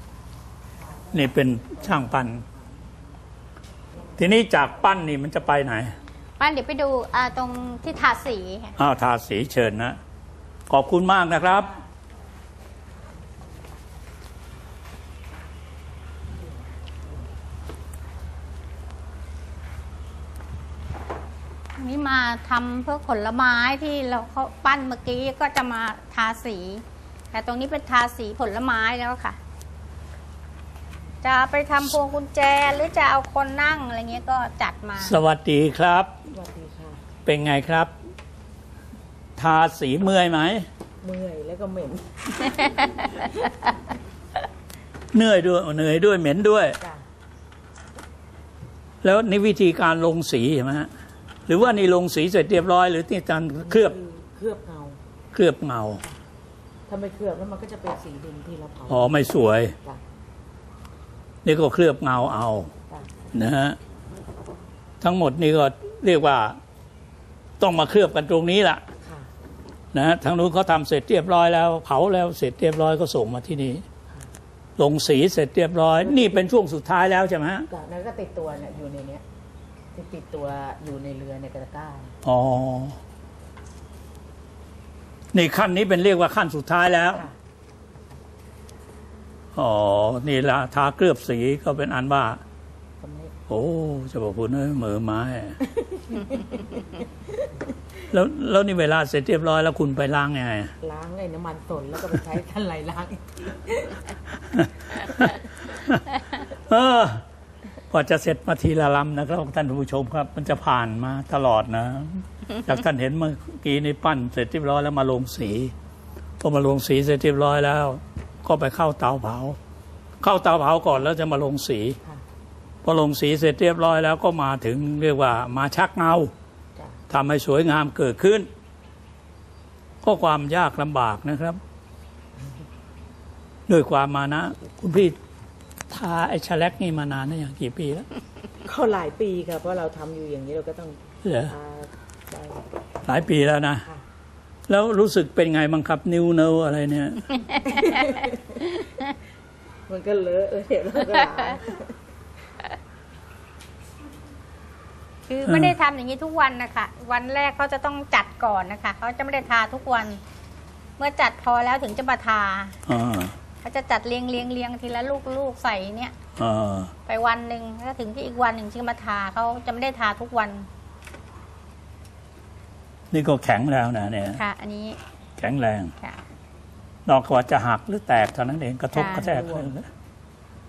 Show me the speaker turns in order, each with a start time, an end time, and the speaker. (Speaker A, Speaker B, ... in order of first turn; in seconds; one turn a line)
Speaker A: 1.1-2.4
Speaker A: 4.2-5.9
Speaker B: 6.4-8.7
Speaker A: 8.8-10.0
Speaker A: 10.7-11.7
Speaker B: 21.8-29.4
Speaker B: 31.2-35.1
Speaker A: 35.0-36.1
Speaker C: 36.3-37.0
Speaker A: 37.2-37.9
Speaker A: 39.4-40.6
Speaker C: 41.0-42.3
Speaker A: 45.1-46.8
Speaker A: 49.0-50.9
Speaker A: 51.5-54.0
Speaker C: 53.6-55.0
Speaker A: 55.3-56.0
Speaker C: 56.9-59.2
Speaker A: 58.9-59.7
Speaker A: 61.4-62.7
Speaker C: 62.9-63.1
Speaker A: 63.3-63.8
Speaker A: 65.0-66.6
Speaker A: 67.6-68.8
Speaker C: 69.0-69.3
Speaker A: 69.9-73.8
Speaker A: 74.8-77.7
Speaker C: 76.0-76.5
Speaker C: 77.7-79.2
Speaker C: 79.9-82.1
Speaker A: 82.2-83.0
Speaker A: 85.3-87.2
Speaker A: 89.5-92.4
Speaker C: 93.0-93.3
Speaker A: 93.5-95.6
Speaker C: 95.8-97.0
Speaker A: 98.1-100.7
Speaker C: 100.8-104.0
Speaker A: 104.5-105.3
Speaker A: 106.7-107.2
Speaker A: 107.9-115.7
Speaker A: 116.4-119.6
Speaker A: 120.2-122.0
Speaker A: 122.8-126.3
Speaker A: 127.1-128.5
Speaker A: 130.0-131.6
Speaker A: 133.7-135.2
Speaker A: 135.9-138.1
Speaker C: 138.6-142.6
Speaker A: 141.2-141.5
Speaker A: 143.0-143.8
Speaker A: 144.7-147.4
Speaker B: 147.5-148.2
Speaker C: 147.7-148.4
Speaker C: 149.9-151.9
Speaker B: 155.3-160.2
Speaker A: 155.4-155.7
Speaker B: 161.0-162.7
Speaker A: 162.8-163.3
Speaker B: 163.6-166.1
Speaker A: 166.4-166.9
Speaker B: 167.1-170.7
Speaker A: 173.1-174.4
Speaker B: 174.3-175.0
Speaker A: 175.4-175.9
Speaker A: 177.1-179.9
Speaker B: 178.9-179.3
Speaker C: 179.0-179.7